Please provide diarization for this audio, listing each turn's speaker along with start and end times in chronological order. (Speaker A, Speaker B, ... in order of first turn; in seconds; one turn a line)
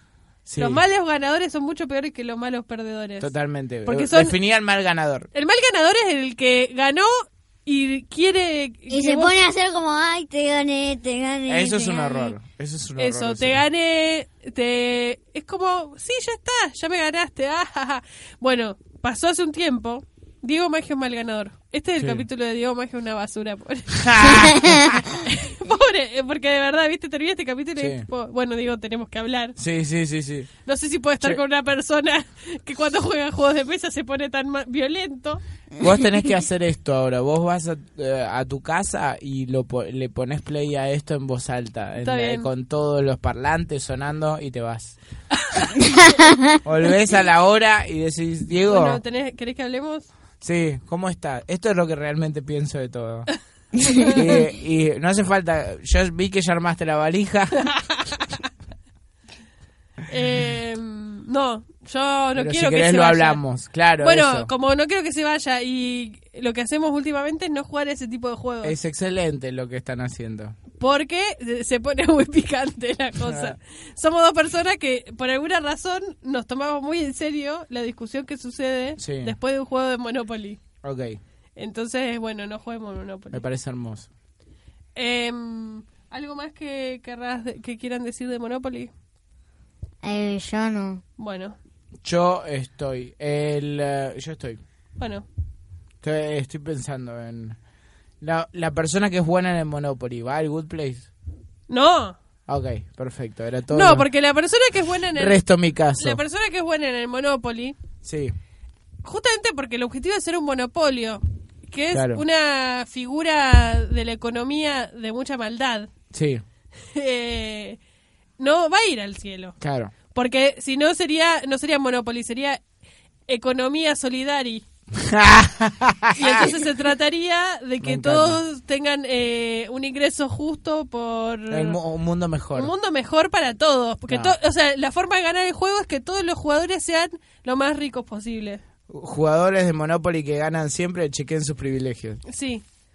Speaker A: 0.5-0.8
Speaker B: 0.6-3.3
Speaker A: 3.2-5.3
Speaker B: 3.8-4.3
Speaker B: 5.3-9.4
Speaker C: 8.9-12.3
Speaker A: 11.5-13.6
Speaker B: 13.0-29.6
Speaker A: 22.0-22.2
Speaker A: 24.0-25.0
Speaker A: 27.8-28.1
Speaker A: 29.6-30.5
Speaker B: 30.6-35.4
Speaker A: 35.8-45.0
Speaker B: 42.0-42.5
Speaker A: 46.6-49.0
Speaker B: 48.7-50.1
Speaker A: 50.4-53.3
Speaker B: 53.8-54.2
Speaker A: 54.1-57.7
Speaker B: 57.7-58.2
Speaker B: 60.1-63.4
Speaker A: 62.3-64.5
Speaker B: 64.0-68.8
Speaker A: 68.6-70.5
Speaker B: 70.8-80.6
Speaker A: 73.2-73.6
Speaker A: 79.0-79.3
Speaker A: 80.8-81.2
Speaker B: 81.6-83.4
Speaker A: 83.3-84.1
Speaker B: 85.0-88.9
Speaker C: 90.0-91.0
Speaker B: 91.2-91.6
Speaker A: 92.0-94.6
Speaker B: 95.0-95.2
Speaker A: 96.0-97.6
Speaker A: 98.2-101.1
Speaker B: 101.7-102.2
Speaker A: 102.5-104.1
Speaker B: 103.7-105.4
Speaker A: 105.1-106.2
Speaker B: 106.0-107.8
Speaker A: 108.0-108.3
Speaker B: 109.0-115.9
Speaker A: 111.9-112.2
Speaker A: 116.1-116.4
Speaker B: 116.9-117.8
Speaker B: 118.4-119.5
Speaker A: 119.6-119.9
Speaker B: 120.1-122.6
Speaker B: 123.3-124.6
Speaker A: 124.9-126.5
Speaker B: 126.1-131.8
Speaker A: 127.8-128.4
Speaker A: 131.5-132.7
Speaker B: 132.5-138.6
Speaker A: 134.1-134.3
Speaker A: 138.9-142.2
Speaker B: 142.2-142.6